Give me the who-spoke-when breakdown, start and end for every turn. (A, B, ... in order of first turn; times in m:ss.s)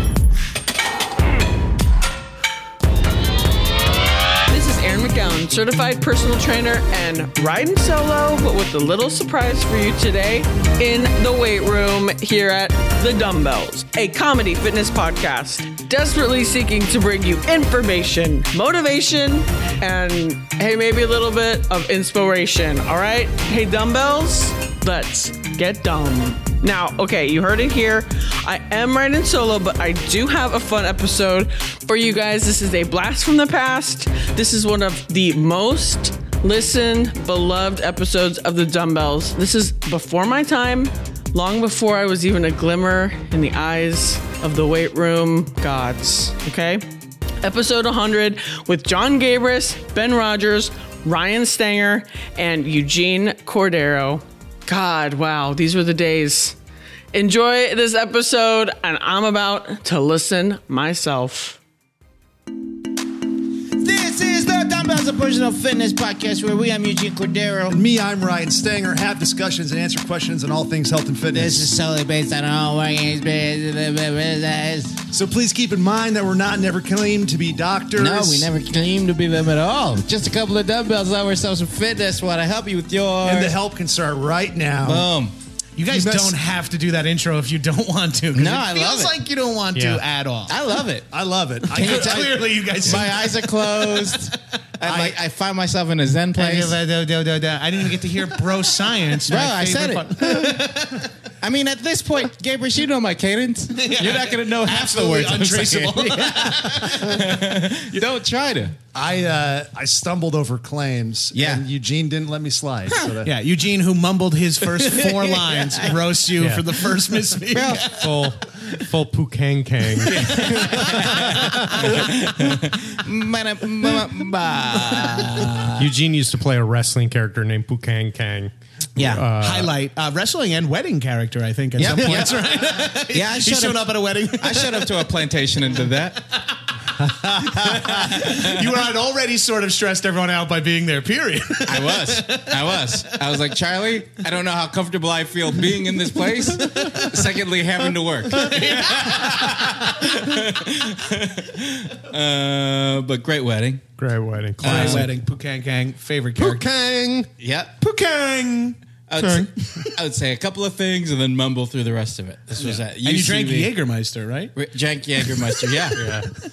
0:04.5-0:46.8 A
0:47.4-0:56.6 A
0:57.1-1:01.6 A
1:03.8-1:07.8 B
1:07.7-1:11.7 C
1:11.3-1:15.0 B
1:15.1-1:18.5 C
1:18.0-1:23.5 B
1:23.2-1:25.1 C
1:24.8-1:25.3 B
1:25.8-1:30.6 D
1:25.9-1:26.4 C
1:28.3-1:29.2 B
1:29.7-1:30.0 E
1:30.5-1:31.1 B
1:31.1-1:32.4 C
1:31.7-1:36.8 B
1:31.7-1:34.3 D
1:34.8-1:35.2 C
1:36.4-1:41.1 D
1:39.3-1:40.6 B
1:41.4-1:48.8 B
1:43.8-1:47.2 D
1:48.9-1:53.3 C
1:51.3-1:51.6 B
1:53.2-1:58.3 D
1:54.8-1:56.0 B
1:56.4-1:56.7 E
1:57.5-1:57.9 B
1:57.9-2:02.1 E
2:00.0-2:05.9 B
2:05.8-2:09.7 E
2:09.0-2:09.3 B
2:09.4-2:15.0 D
2:11.8-2:16.2 B
2:17.3-2:23.2 D
2:17.4-2:17.8 C
2:17.5-2:18.7 B
2:21.7-2:33.8 B
2:28.3-2:30.1 D
2:34.0-2:35.1 E
2:34.6-2:35.1 B
2:34.6-2:36.6 D
2:36.4-2:37.3 E
2:37.4-2:37.7 B
2:37.8-2:38.8 D
2:39.1-2:43.7 B
2:39.2-2:39.9 E
2:42.6-2:44.5 D
2:44.6-2:46.1 B
2:46.0-2:46.3 E